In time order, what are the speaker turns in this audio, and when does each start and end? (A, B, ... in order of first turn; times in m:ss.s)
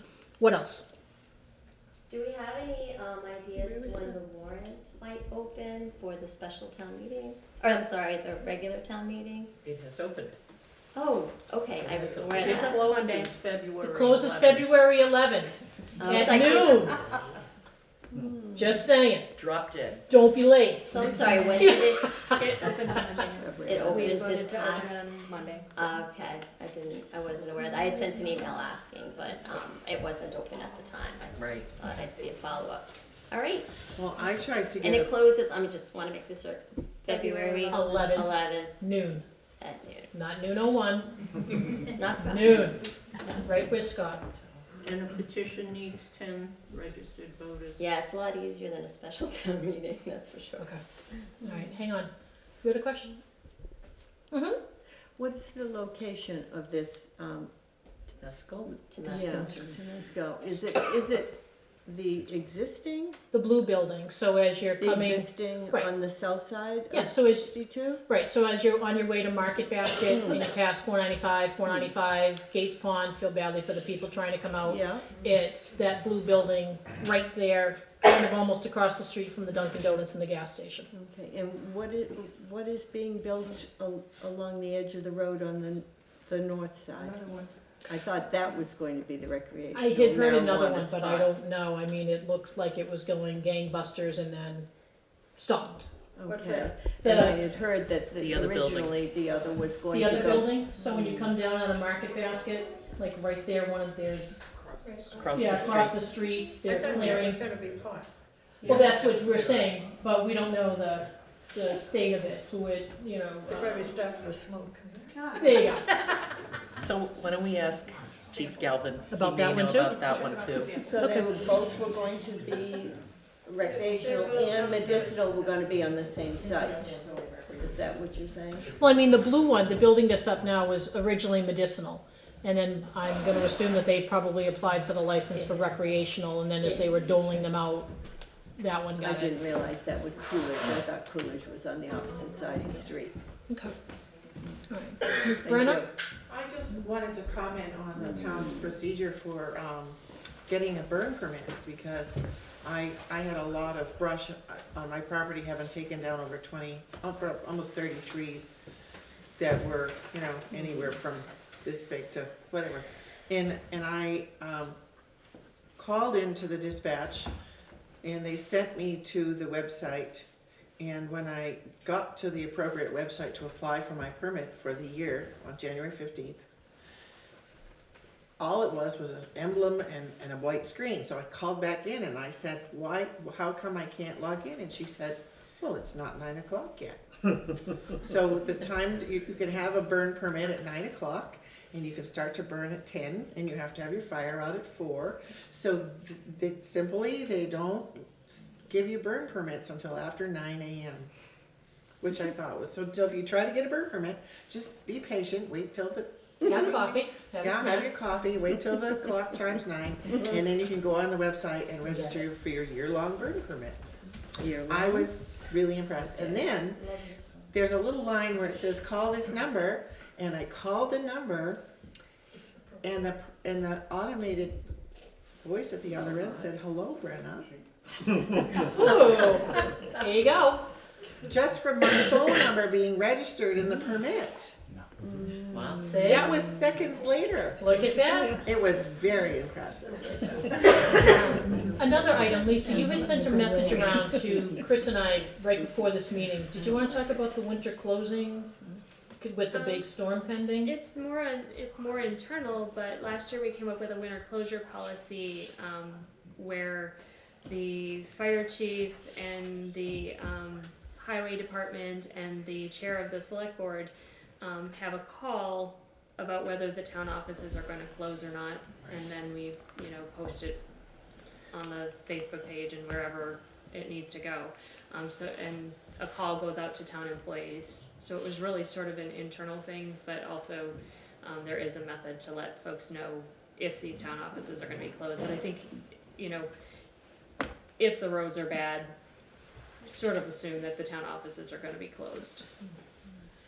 0:00.4-0:00.8 A
0:02.1-0:09.5 B
0:09.6-0:10.4 C
0:10.9-0:13.3 B
0:11.8-0:12.9 C
0:12.4-0:12.8 A
0:12.6-0:14.4 D
0:13.8-0:17.0 A
0:14.1-0:14.6 C
0:16.0-0:17.0 B
0:18.5-0:19.3 A
0:19.3-0:20.0 C
0:20.1-0:21.0 A
0:20.8-0:22.1 B
0:21.6-0:21.8 A
0:21.6-0:25.7 E
0:23.4-0:24.2 F
0:23.6-0:25.0 B
0:25.7-0:33.8 B
0:31.3-0:31.7 C
0:33.9-0:35.1 G
0:34.8-0:38.8 B
0:37.1-0:37.7 E
0:37.7-0:39.2 A
0:39.6-0:40.1 B
0:40.1-0:41.2 A
0:41.9-0:42.8 B
0:42.2-0:44.2 A
0:44.8-0:47.8 D
0:47.8-0:50.8 B
0:51.4-0:52.1 A
0:52.6-0:53.2 A
0:54.3-0:54.6 A
0:55.2-0:57.5 F
0:58.2-0:59.4 C
0:58.9-0:59.7 B
0:59.1-1:03.2 F
1:03.3-1:05.9 A
1:04.8-1:08.0 F
1:06.9-1:07.5 A
1:08.0-1:20.9 A
1:14.6-1:15.1 F
1:20.9-1:27.2 F
1:27.0-1:27.6 H
1:27.8-1:31.3 F
1:29.7-1:34.7 A
1:35.4-1:35.9 A
1:36.2-1:41.4 F
1:36.3-1:36.8 H
1:37.0-1:37.4 A
1:38.2-1:39.0 C
1:39.9-1:44.4 A
1:44.8-1:45.2 H
1:45.1-1:46.0 C
1:45.3-1:47.4 A
1:46.6-1:49.1 H
1:48.6-1:49.0 F
1:48.6-1:53.9 A
1:53.4-1:55.7 H
1:55.3-1:55.9 A
1:56.8-2:00.8 C
1:58.3-1:58.8 H
1:59.1-2:00.2 A
2:00.0-2:01.9 H
2:00.8-2:08.7 F
2:00.9-2:01.4 A
2:03.6-2:05.9 H
2:06.4-2:06.7 H
2:08.8-2:17.9 A
2:18.6-2:19.4 A
2:19.0-2:23.2 F
2:23.5-2:23.8 A
2:24.7-2:25.8 A
2:25.4-2:25.9 F
2:26.3-2:38.6 G
2:28.0-2:28.6 F
2:39.4-2:44.8 G
2:45.8-2:47.3 G
2:48.0-2:50.3 G
2:50.8-2:56.4 G
2:58.4-3:21.1 G
3:22.0-3:33.8 G
3:26.4-3:27.9 A
3:31.9-3:32.2 A
3:34.6-3:36.8 G
3:34.7-3:35.0 B
3:36.2-3:37.5 H
3:37.5-3:41.6 G
3:42.3-3:43.1 H
3:42.8-3:44.6 G
3:45.4-3:47.5 G
3:48.6-3:50.7 A
3:51.2-3:54.6 G
3:55.0-3:56.0 F
3:55.5-3:56.3 C
3:55.8-3:56.3 A
3:56.0-3:57.7 G
3:57.6-3:58.4 A
3:57.7-3:58.5 H
3:58.4-4:02.0 G
4:00.1-4:01.4 H
4:01.0-4:08.6 A
4:02.6-4:04.2 F
4:09.2-4:10.7 A
4:09.5-4:09.9 E
4:10.6-4:16.9 E
4:17.5-4:30.6 E
4:31.5-4:46.5 E
4:47.8-4:48.9 E
4:49.8-4:52.4 E